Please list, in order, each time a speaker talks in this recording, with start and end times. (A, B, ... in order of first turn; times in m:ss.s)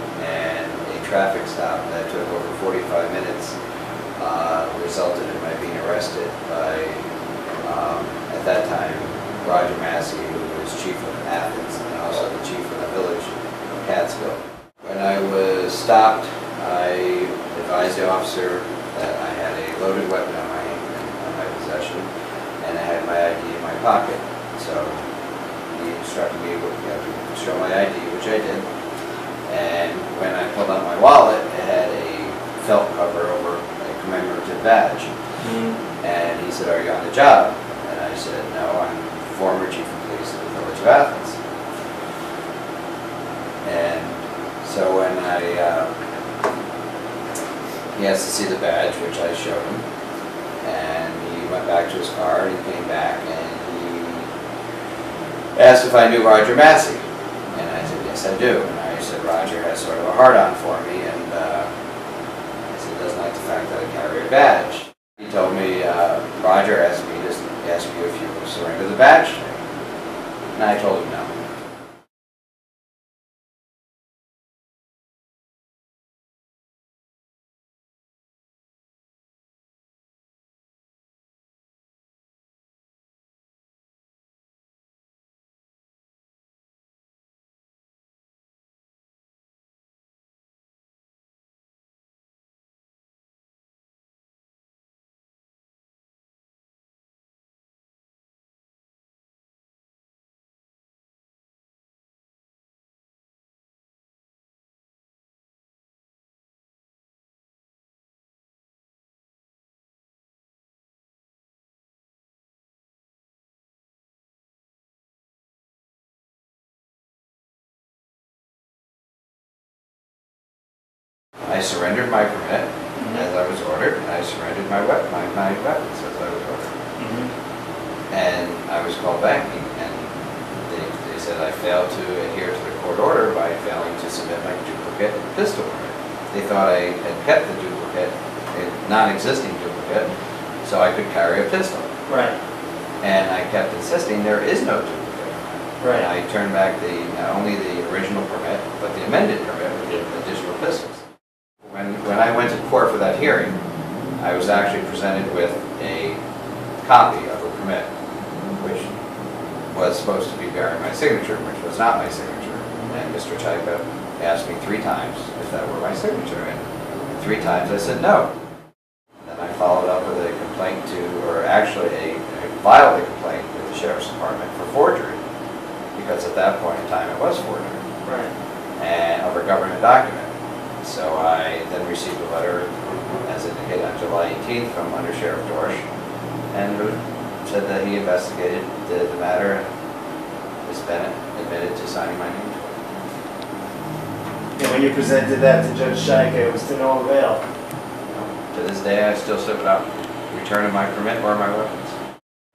0:00.2-0:03.6 A
0:04.2-0:07.0 A
0:07.6-0:22.1 A
0:22.6-0:25.0 A
0:25.7-0:28.6 A
0:29.5-0:35.1 A
0:35.4-0:35.8 B
0:36.0-0:41.4 A
0:43.6-0:45.9 A
0:47.9-0:49.8 A
0:50.6-0:54.3 A
0:55.5-1:01.7 A
1:02.7-1:09.6 A
1:10.5-1:11.3 A
2:01.5-2:06.8 A
2:07.0-2:07.3 B
2:08.1-2:10.1 A
2:10.7-2:20.1 A
2:20.6-2:21.9 A
2:22.1-2:22.4 B
2:23.0-2:31.0 A
2:25.8-2:26.1 B
2:31.6-2:33.6 A
2:34.2-2:36.2 A
2:36.8-2:37.9 A
2:38.6-2:38.9 A
2:39.7-2:48.3 A
2:49.2-2:55.2 A
2:55.9-2:57.8 A
2:58.0-2:58.3 B
2:58.8-3:02.7 A
3:03.2-3:05.8 A
3:06.5-3:09.7 A
3:10.6-3:12.8 A
3:14.6-3:17.4 B
3:18.1-3:22.0 A